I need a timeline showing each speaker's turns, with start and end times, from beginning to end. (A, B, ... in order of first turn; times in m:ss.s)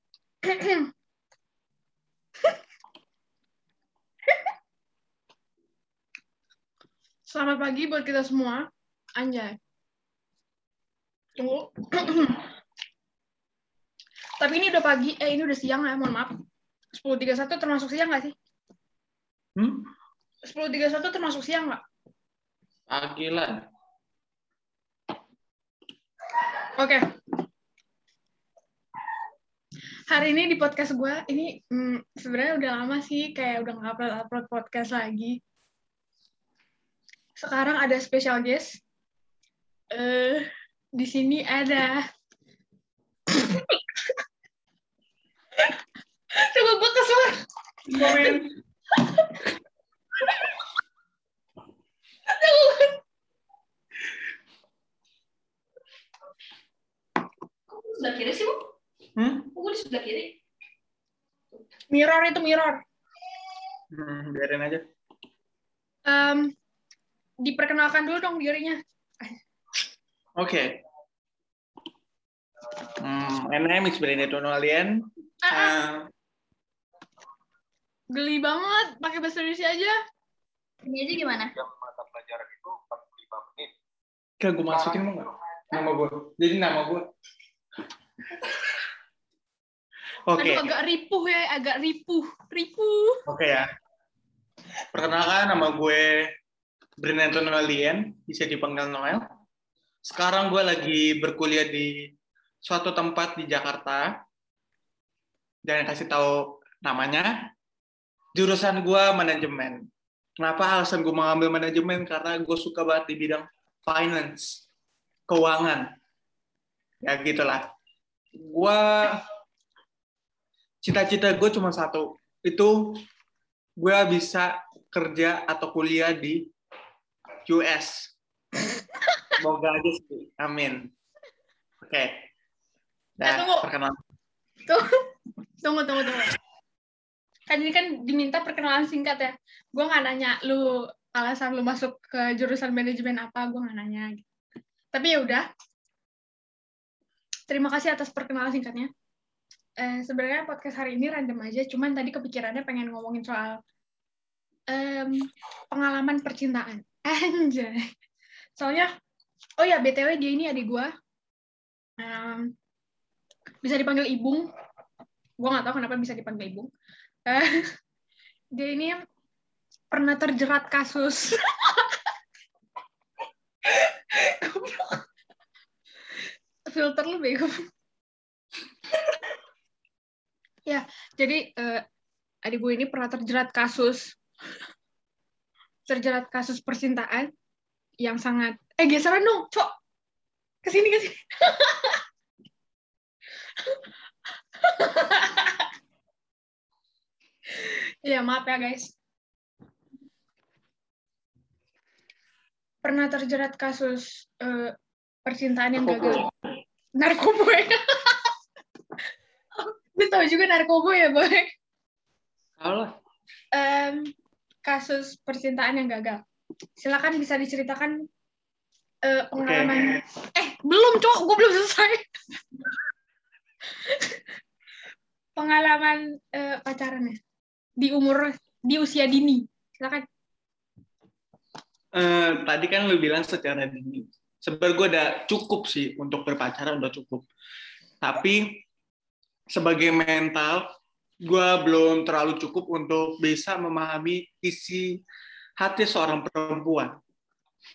0:00.4-0:00.9 A
0:07.3-0:09.6 A
0:11.4-0:12.4 A
0:14.4-0:16.3 A
0:16.9-0:18.3 A
0:19.6-0:19.9 B
0:20.4-0:21.8 A
0:22.9-0:23.6 B
0:26.8-0:27.0 A
0:30.1-0:35.4 A
0:37.4-0:38.8 A
0:39.9-0:40.4 A
0:41.0-0:42.0 A
0:43.3-0:43.8 A
0:46.3-0:47.4 A
0:47.9-0:48.5 B
0:48.0-0:48.3 A
0:49.0-0:49.4 A
0:52.3-0:53.0 A
0:57.7-0:58.6 C
0:59.2-0:59.5 B
0:59.5-1:00.4 C
1:01.9-1:02.8 A
1:03.9-1:04.8 B
1:06.1-1:06.5 A
1:07.4-1:08.8 A
1:10.4-1:10.7 B
1:13.0-1:16.1 B
1:15.4-1:15.8 A
1:18.1-1:19.9 A
1:20.8-1:21.5 C
1:21.6-1:23.7 D
1:24.4-1:27.0 B
1:28.4-1:28.7 B
1:30.3-1:30.6 B
1:30.4-1:33.2 A
1:33.2-1:33.6 B
1:34.9-1:36.1 B
1:37.0-1:39.2 B
1:40.1-1:41.9 B
1:42.6-1:44.1 B
1:45.6-1:47.3 B
1:48.4-1:49.8 B
1:50.4-1:54.6 B
1:55.3-1:55.9 B
1:57.0-1:57.6 B
1:58.4-1:59.2 B
2:00.8-2:03.0 B
2:03.8-2:06.4 B
2:07.4-2:08.1 B
2:09.4-2:10.9 B
2:11.8-2:12.2 B
2:13.2-2:14.0 B
2:13.2-2:13.7 A
2:15.6-2:16.4 A
2:17.5-2:24.2 A
2:24.9-2:25.4 A
2:27.5-2:28.9 A
2:29.8-2:33.6 A
2:34.7-2:37.8 A
2:38.6-2:38.9 A
2:39.6-2:40.9 A
2:42.0-2:42.5 A
2:43.6-2:44.5 A
2:45.4-2:46.7 A
2:47.3-2:47.7 A
2:48.5-2:49.0 A
2:49.9-2:52.0 A
2:53.7-2:55.0 A
2:56.7-2:57.6 A
3:00.7-3:01.8 A
3:02.4-3:04.2 A
3:05.9-3:07.3 A
3:08.0-3:09.7 A
3:10.6-3:12.0 A
3:14.6-3:15.7 A
3:17.5-3:18.9 A
3:22.8-3:24.7 A
3:25.2-3:26.2 A
3:25.8-3:26.3 B
3:27.0-3:28.3 A
3:29.9-3:31.5 A
3:32.6-3:32.9 B
3:33.5-3:34.1 A
3:34.6-3:36.2 A
3:36.8-3:38.0 A
3:39.0-3:42.0 A
3:39.4-3:40.0 B
3:43.8-3:44.2 A
3:45.4-3:47.2 A
3:47.8-3:50.0 A
3:51.9-3:57.2 B
3:58.0-3:58.6 B
3:59.5-4:00.6 B
4:01.2-4:05.0 B
4:05.6-4:07.0 B